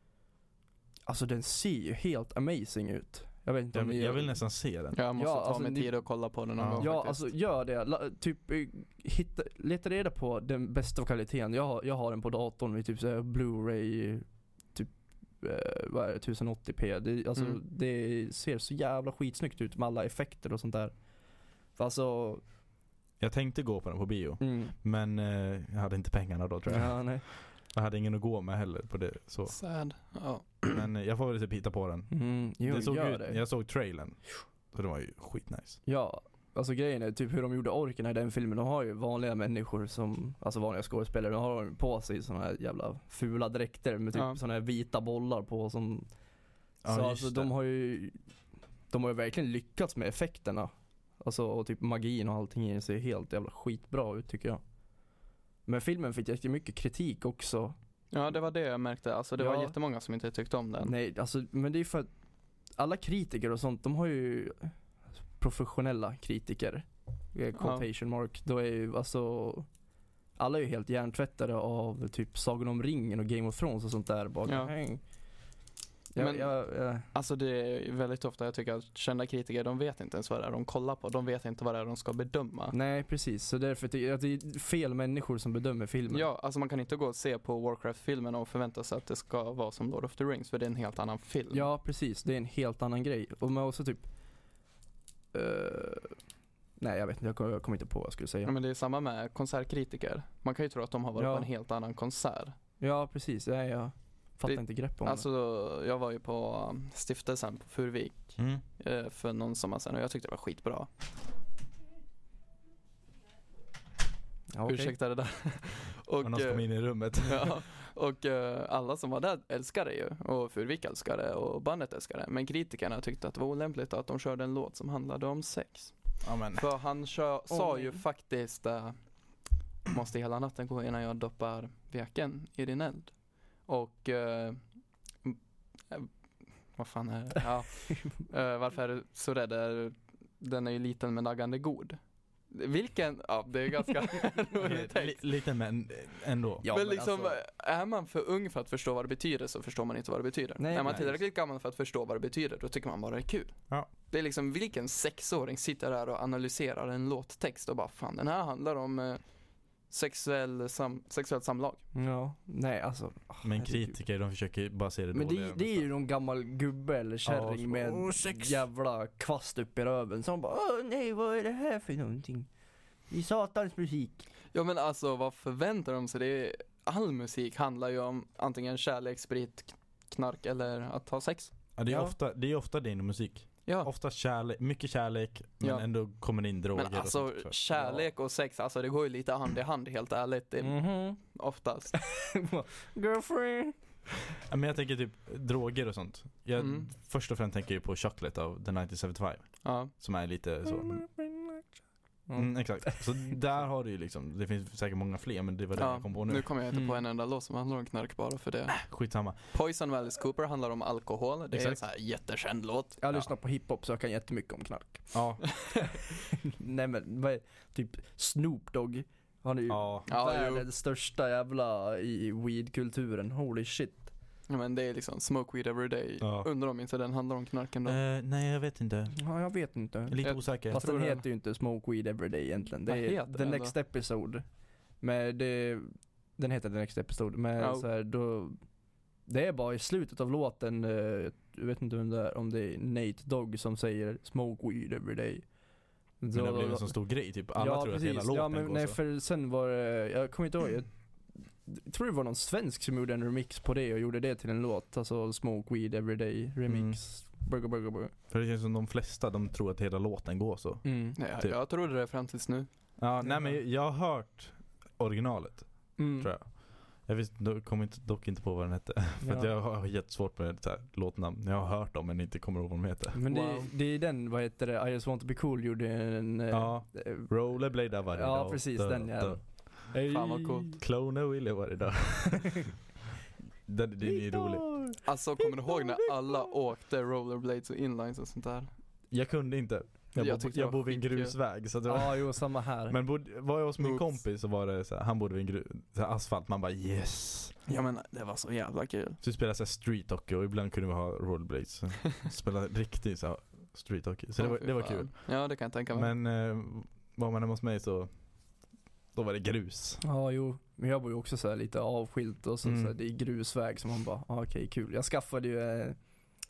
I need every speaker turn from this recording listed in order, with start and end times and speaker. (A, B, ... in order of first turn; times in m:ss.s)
0:01.1-0:04.4 A
0:03.7-0:05.0 B
0:04.9-0:07.3 C
0:05.1-0:06.0 A
0:06.6-0:06.9 B
0:06.8-0:21.0 A
0:21.7-0:22.4 A
0:23.2-0:29.6 B
0:24.4-0:24.7 A
0:26.7-0:27.3 A
0:29.5-0:30.8 C
0:30.7-0:35.8 B
0:32.1-0:33.4 A
0:35.8-0:46.1 A
0:44.1-0:44.4 C
0:46.8-0:47.5 B
0:46.9-0:48.2 A
0:48.9-0:54.6 A
0:55.6-0:57.8 A
0:58.1-1:00.9 C
0:59.4-0:59.7 A
1:00.8-1:02.1 A
1:02.8-1:04.8 A
1:05.4-1:09.7 A
1:07.6-1:07.8 C
1:10.4-1:15.0 A
1:14.4-1:14.7 C
1:16.1-1:17.1 A
1:16.2-1:22.7 C
1:22.7-1:26.2 A
1:26.1-1:31.7 C
1:31.5-1:34.0 A
1:35.3-1:36.2 A
1:36.8-1:38.5 A
1:38.4-1:42.6 C
1:41.2-1:41.5 A
1:42.8-1:45.2 A
1:44.4-1:50.9 C
1:48.4-1:48.6 B
1:54.5-1:55.0 A
1:54.6-2:09.0 C
1:56.2-1:57.6 B
2:06.2-2:06.6 B
2:07.5-2:08.0 A
2:09.8-2:14.6 C
2:16.7-2:25.3 C
2:24.6-2:26.6 B
2:26.6-2:27.4 A
2:26.7-2:41.8 C
2:30.6-2:31.2 A
2:41.9-2:44.0 A
2:43.4-2:45.9 B
2:45.1-2:52.5 A
2:47.2-2:48.6 B
2:53.1-2:54.2 A
2:54.5-3:01.5 C
3:01.8-3:08.1 B
3:01.9-3:02.1 A
3:05.6-3:12.1 C
3:10.6-3:11.2 A
3:11.9-3:13.8 A
3:14.5-3:21.1 B
3:16.6-3:16.9 C
3:19.6-3:19.9 C
3:20.7-3:23.4 A
3:22.4-3:26.5 B
3:25.8-3:33.0 C
3:26.7-3:27.0 A
3:28.8-3:29.4 B
3:31.5-3:31.8 B
3:33.0-3:44.1 A
3:35.1-3:35.5 B
3:39.7-3:40.0 B
3:40.1-3:40.7 C
3:44.5-3:48.0 C
3:46.2-3:46.5 B
3:47.8-3:49.2 B
3:49.2-3:54.4 A
3:50.1-3:50.8 B
3:50.2-3:51.2 C
3:52.9-3:53.7 C
3:55.0-3:58.6 A
3:57.6-3:57.8 C
3:59.2-4:05.5 A
4:06.2-4:18.1 A
4:06.3-4:09.0 B
4:16.7-4:17.0 B
4:18.3-4:21.6 B
4:20.8-4:21.2 A
4:21.2-4:22.7 C
4:23.0-4:33.2 B
4:26.0-4:26.3 A
4:29.2-4:29.5 A
4:33.1-4:40.8 A
4:33.3-4:33.7 C
4:36.5-4:39.6 B
4:40.1-4:40.8 C
4:40.8-4:42.8 B
4:43.6-4:45.0 B
4:44.0-4:45.0 A
4:45.0-4:48.7 C
4:49.1-4:57.6 B
4:50.1-4:51.4 C
4:51.8-4:53.0 A
4:53.8-4:54.2 C
4:57.7-4:59.2 C
4:59.2-5:05.3 B
5:04.4-5:06.1 C
5:05.9-5:08.1 B
5:09.1-5:10.0 B
5:10.0-5:16.0 A
5:12.6-5:12.9 B